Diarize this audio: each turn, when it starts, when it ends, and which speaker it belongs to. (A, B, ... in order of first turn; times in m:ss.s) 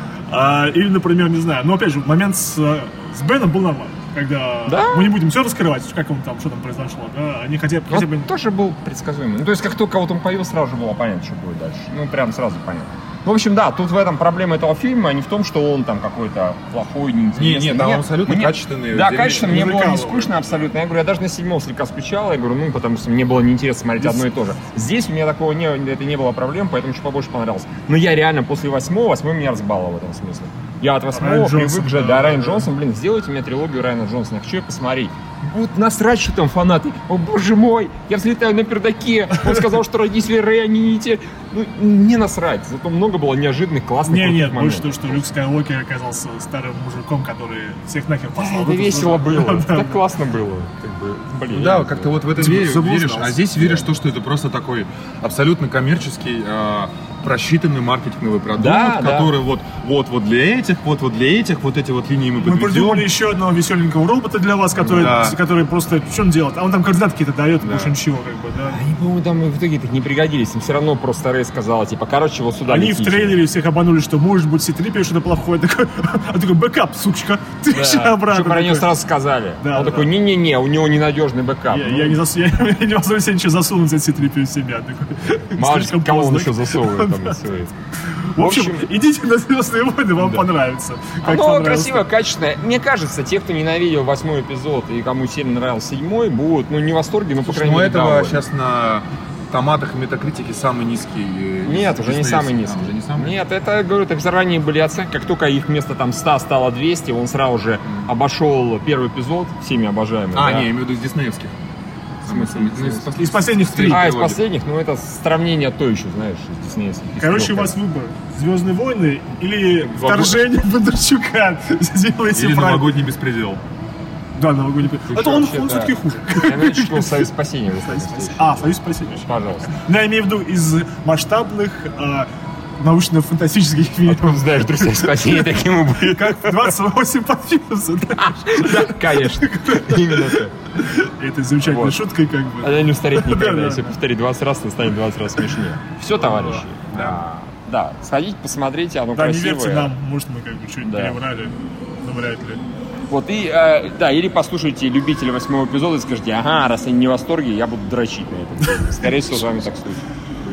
0:00.3-0:08.3 A
0:04.7-0:05.1 B
0:07.9-0:45.2 B
0:17.3-0:19.6 C
0:19.1-0:20.4 A
0:24.0-0:24.2 A
0:31.1-0:32.7 A
0:44.0-0:50.0 A
0:48.4-0:52.4 B
0:51.5-1:03.1 C
0:52.4-0:53.4 A
0:53.6-0:53.8 B
0:58.5-0:59.3 B
1:02.4-1:08.8 A
1:04.9-1:05.4 C
1:07.6-1:07.9 C
1:08.7-1:13.4 B
1:12.6-1:19.0 A
1:17.7-1:22.2 B
1:19.6-1:20.1 A
1:21.7-1:27.4 A
1:25.6-1:27.7 B
1:28.3-1:32.0 A
1:28.4-1:28.9 B
1:30.2-1:30.4 B
1:31.2-1:38.4 B
1:37.4-1:43.3 C
1:41.6-1:50.7 B
1:50.3-1:51.5 C
1:52.2-1:53.2 B
1:52.2-1:54.4 C
1:53.2-1:54.1 A
1:53.7-1:57.8 B
1:57.2-2:02.9 A
1:59.9-2:00.4 C
2:02.3-2:03.6 C
2:04.4-2:07.3 A
2:05.1-2:09.8 B
2:07.9-2:23.9 A
2:14.0-2:16.7 B
2:18.1-2:20.5 B
2:21.6-2:22.0 B
2:22.6-2:29.9 B
2:26.1-2:27.2 A
2:29.1-2:32.6 A
2:30.8-2:31.2 B
2:33.1-2:40.0 B